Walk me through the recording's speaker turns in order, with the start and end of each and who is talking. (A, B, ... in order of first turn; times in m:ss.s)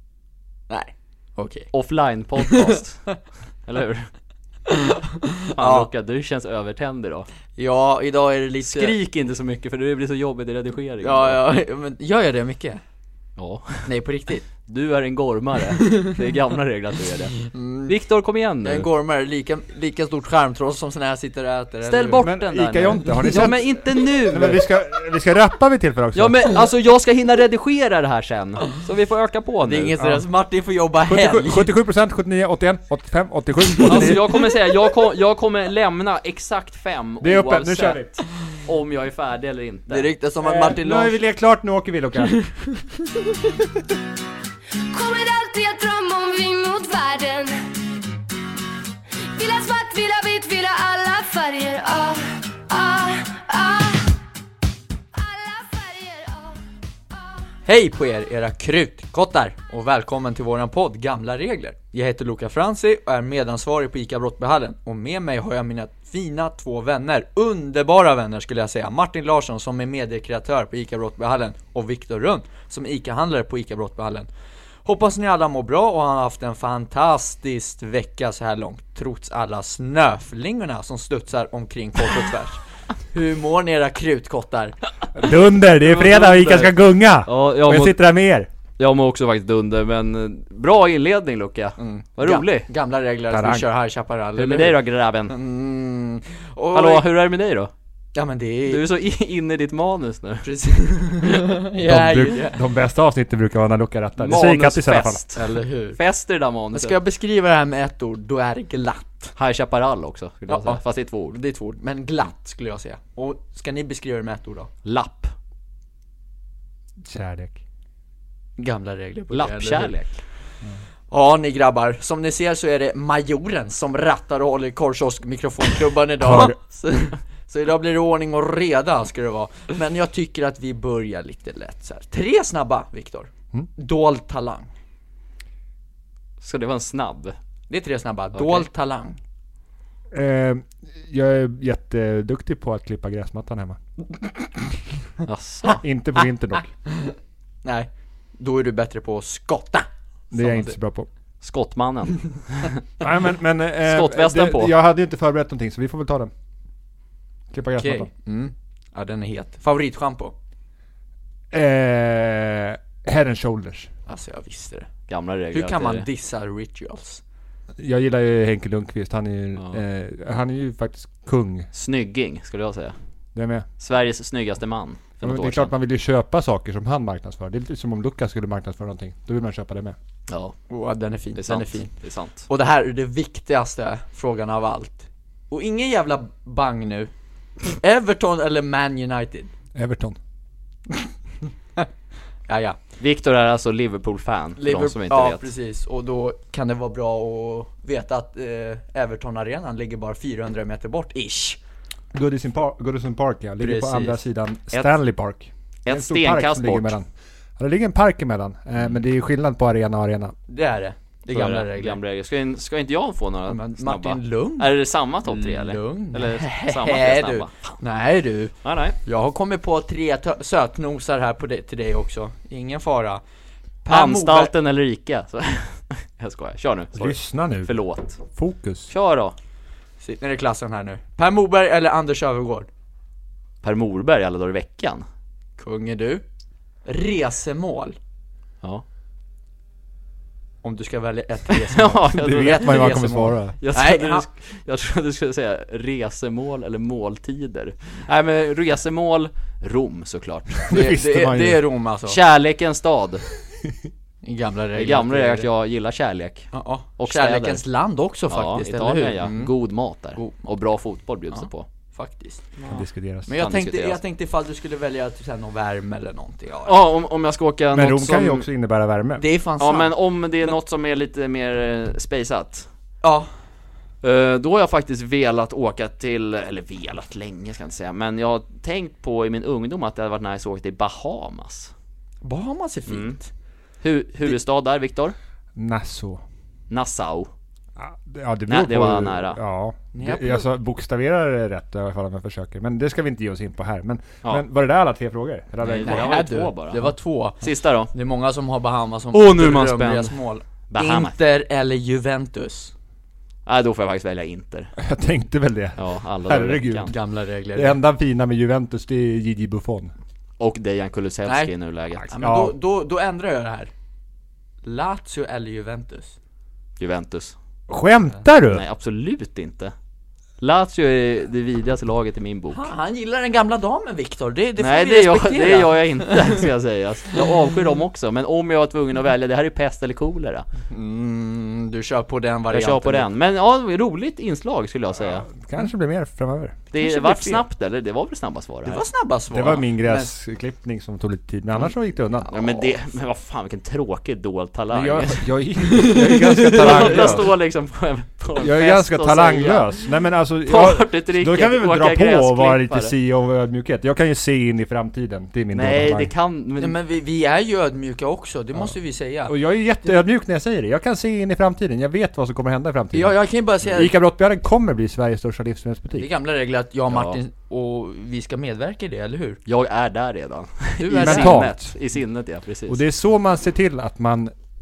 0:00.7-0:01.7 A
0:01.7-0:03.0 B
0:02.4-0:03.2 A
0:03.6-0:04.1 B
0:04.7-0:05.9 A
0:05.6-0:07.3 B
0:07.6-0:09.0 A
0:08.6-0:11.4 B
0:11.0-0:12.8 A
0:13.4-0:13.9 B
0:13.8-0:14.4 A
0:14.7-0:18.9 B
0:17.5-0:18.0 A
0:18.6-0:22.3 A
0:21.8-0:24.6 B
0:22.2-0:26.5 C
0:26.1-0:30.0 B
0:29.6-0:31.7 A
0:30.0-0:30.2 C
0:31.1-0:34.3 C
0:33.8-0:34.4 A
0:33.8-0:40.1 B
0:37.2-0:38.1 C
0:39.9-0:41.2 A
0:40.4-0:42.4 C
0:44.9-0:47.7 D
0:49.3-0:54.2 D
0:55.1-0:56.6 D
0:57.7-1:14.3 A
1:14.8-1:24.8 A
1:25.1-1:28.5 C
1:25.8-1:26.7 B
1:27.2-1:28.0 B
1:28.8-1:32.7 B
1:31.8-1:37.0 A
1:33.3-1:33.6 C
1:34.4-1:35.3 B
1:36.7-1:37.7 B
1:38.1-1:38.8 A
1:38.7-1:40.5 B
1:40.4-1:42.6 A
1:41.8-1:45.2 C
1:44.2-1:46.9 B
1:45.3-1:46.0 A
1:46.7-1:49.3 A
1:49.4-1:51.4 B
1:50.5-1:54.7 A
1:54.8-1:55.3 B
1:57.0-1:57.6 C
1:58.6-1:59.9 A
1:59.3-2:00.2 B
2:01.1-2:14.7 A
2:06.2-2:06.6 C
2:16.4-2:17.4 B
2:17.7-2:19.2 A
2:18.3-2:18.7 B
2:20.1-2:23.8 C
2:25.2-2:25.8 B
2:25.7-2:26.7 C
2:26.8-2:30.7 A
2:30.3-2:31.1 C
2:31.4-2:32.8 B
2:33.0-2:36.3 C
2:33.8-2:34.7 B
2:37.5-2:38.1 C
2:37.8-2:40.3 A
2:41.5-2:43.9 C
2:44.1-2:44.9 A
2:45.1-2:46.1 B
2:45.5-2:47.2 A
2:47.8-2:51.7 C
2:51.7-2:53.0 B
2:53.3-2:53.7 C
2:53.8-2:55.7 B
2:55.2-3:00.0 C
3:00.3-3:00.5 B
3:00.7-3:01.9 A
3:01.4-3:02.4 B
3:02.5-3:07.1 A
3:07.6-3:09.5 A
3:09.8-3:10.2 C
3:12.5-3:12.8 A
3:13.0-3:15.4 B
3:14.6-3:21.6 A
3:22.1-3:27.1 C
3:23.6-3:24.2 A
3:25.8-3:26.9 B
3:27.6-3:30.3 C
3:30.5-3:32.0 A
3:31.3-3:37.8 B
3:33.5-3:43.2 A
3:38.6-3:39.0 B
3:43.8-3:44.5 A
3:43.9-3:48.2 B
3:46.9-3:47.8 C
3:48.3-3:48.9 C
3:48.9-3:49.3 B
3:50.0-3:52.7 A
3:53.6-3:55.0 B
3:55.6-3:56.2 A
3:56.8-3:58.0 A
4:00.6-4:04.2 A
4:01.7-4:03.0 B
4:02.1-4:03.6 C
4:03.6-4:10.7 B
4:10.7-4:11.6 C
4:10.7-4:12.2 A
4:12.1-4:13.2 B
4:14.2-4:15.5 A
4:14.8-4:17.6 B
4:16.5-4:19.5 A
4:18.3-4:21.6 B
4:21.3-4:22.4 A
4:22.6-4:22.8 B
4:22.7-4:23.3 C
4:23.2-4:26.8 A
4:23.4-4:24.0 B
4:26.6-4:28.4 B
4:27.7-4:29.2 C
4:29.2-4:29.9 A
4:29.6-4:32.7 B
4:33.0-4:33.3 A
4:34.0-4:41.7 B
4:42.2-4:43.3 A
4:42.9-4:43.2 B
4:43.8-4:45.1 B
4:45.6-4:46.2 C
4:46.7-4:47.3 B
4:47.8-4:56.2 C
4:48.5-4:49.4 B
4:49.9-4:50.5 A
4:55.6-4:57.9 B
4:55.8-5:02.7 A
4:59.1-5:00.1 B
5:00.7-5:01.1 B
5:03.4-5:04.7 B
5:04.8-5:07.0 C
5:05.8-5:06.9 B
5:06.9-5:07.8 A
5:07.5-5:09.9 C
5:10.4-5:12.1 B
5:11.2-5:11.5 A
5:12.0-5:12.6 C
5:12.1-5:13.7 A
5:14.6-5:16.1 A
5:16.8-5:17.3 B
5:17.7-5:18.6 C
5:18.5-5:19.7 B
5:20.4-5:22.7 B
5:22.5-5:26.5 A
5:24.6-5:30.4 B
5:30.7-5:33.1 A
5:32.5-5:35.3 B
5:35.3-5:36.6 C
5:36.7-5:38.8 B
5:36.7-5:37.4 A
5:38.6-5:40.1 A
5:39.3-5:42.3 C
5:42.3-5:45.2 B
5:44.7-5:47.3 C
5:45.6-5:47.2 A
5:46.5-5:49.8 B
5:48.4-5:56.1 C
5:50.4-5:52.9 B
5:55.5-5:56.8 B
5:56.6-5:59.3 A
5:59.3-6:06.1 C
6:02.9-6:03.9 A
6:05.9-6:09.4 A
6:06.9-6:07.2 B
6:09.4-6:12.8 B
6:10.8-6:11.5 A
6:10.9-6:11.7 C
6:12.7-6:14.3 C